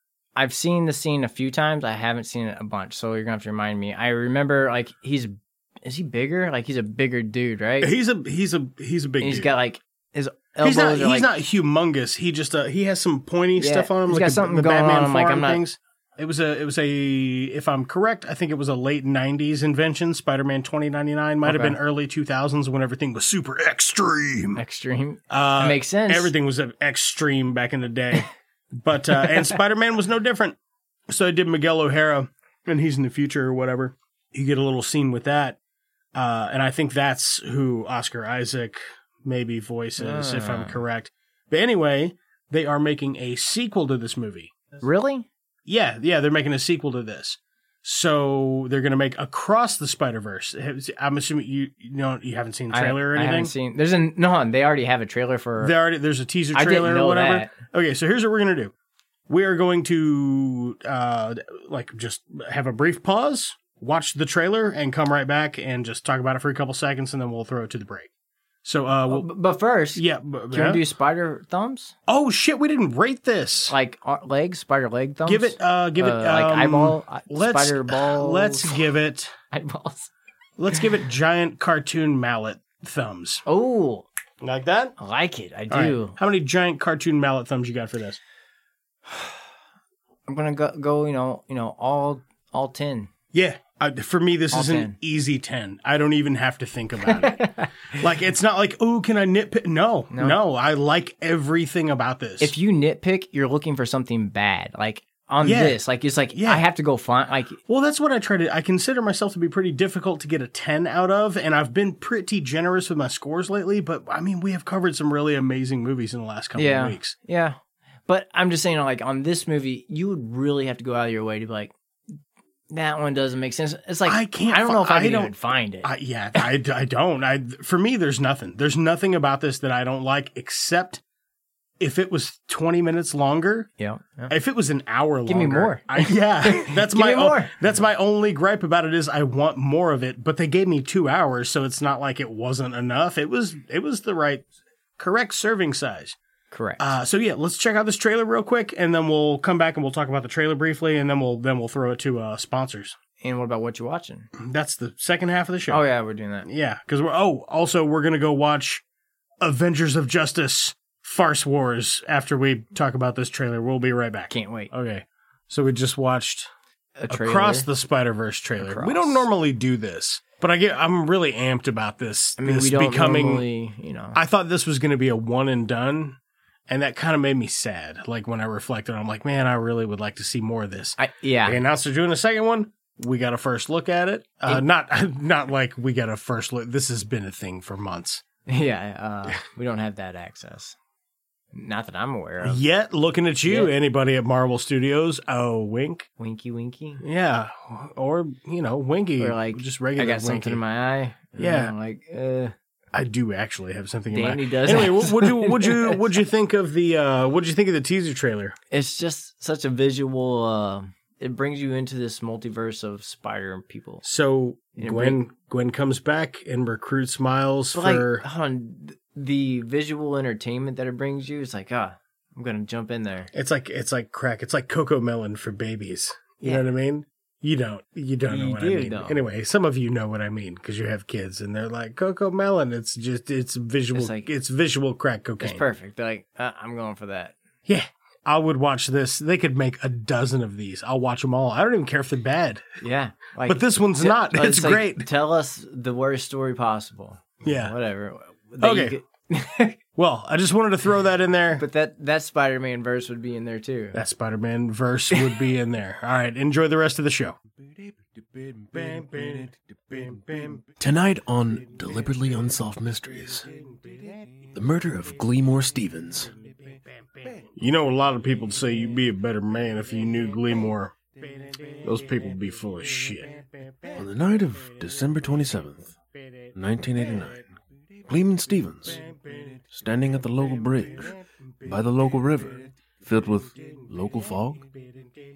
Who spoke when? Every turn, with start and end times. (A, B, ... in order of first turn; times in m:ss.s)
0:00.4-0:07.9 A
0:07.8-0:09.5 B
0:09.2-0:11.3 A
0:10.6-0:24.6 B
0:13.6-0:15.6 A
0:21.4-0:21.8 A
0:24.6-0:26.3 A
0:25.3-0:30.6 B
0:31.1-0:35.6 B
0:36.1-0:44.6 B
0:40.0-0:40.8 A
0:44.8-0:45.3 A
0:45.6-0:53.5 B
0:52.7-0:55.7 A
0:55.6-0:58.7 B
0:56.5-0:57.5 A
0:59.3-1:08.1 B
1:08.6-1:09.3 B
1:09.1-1:11.9 A
1:09.9-1:10.8 B
1:12.1-1:13.7 B
1:13.7-1:18.7 A
1:15.2-1:19.3 B
1:19.5-1:20.1 A
1:20.6-1:23.4 B
1:23.4-1:24.1 A
1:24.4-1:24.9 B
1:25.0-1:26.2 A
1:25.7-1:28.2 B
1:30.3-1:33.1 A
1:33.3-1:42.6 B
1:34.5-1:35.0 A
1:37.1-1:37.7 A
1:40.1-1:40.4 A
1:42.4-1:47.6 A
1:45.4-1:46.6 B
1:47.7-1:57.2 B
1:56.6-2:01.7 A
2:02.7-2:05.9 A
2:04.0-2:11.0 B
2:11.8-2:13.7 B
2:13.8-2:14.3 A
2:14.3-2:24.4 B
2:15.3-2:17.5 A
2:25.0-2:26.2 B
2:26.5-2:26.9 A
2:26.8-2:33.0 B
2:33.2-2:34.3 A
2:34.4-2:35.8 B
2:35.7-2:36.5 A
2:36.4-2:38.8 B
2:39.4-2:46.5 B
2:44.3-2:44.7 A
2:47.0-2:47.7 A
2:47.1-2:53.4 B
2:48.6-2:49.3 A
2:52.4-2:54.2 A
2:54.1-3:08.2 B
3:01.0-3:01.6 A
3:08.5-3:10.8 A
3:11.5-3:12.6 A
3:12.4-3:16.1 B
3:13.5-3:13.7 A
3:16.2-3:17.0 A
3:17.0-3:20.6 B
3:19.2-3:22.5 A
3:21.4-3:21.7 B
3:22.9-3:28.6 B
3:24.1-3:26.0 A
3:28.7-3:34.0 A
3:34.0-3:38.2 B
3:34.8-3:35.2 A
3:37.7-3:43.3 A
3:43.3-3:55.6 B
3:48.3-3:49.2 A
3:53.9-3:54.3 A
3:55.4-3:57.3 A
3:57.6-4:02.8 B
4:02.8-4:09.8 A
4:03.4-4:05.1 B
4:07.4-4:07.7 B
4:08.6-4:09.0 B
4:10.0-4:11.6 B
4:11.6-4:14.0 A
4:13.9-4:17.4 B
4:15.1-4:15.4 A
4:18.7-4:20.6 B
4:20.8-4:23.5 C
4:24.5-4:26.3 C
4:27.5-4:30.9 B
4:31.8-4:33.4 B
4:33.9-4:35.9 C
4:36.6-4:37.5 C
4:38.1-4:39.0 C
4:39.7-4:44.6 C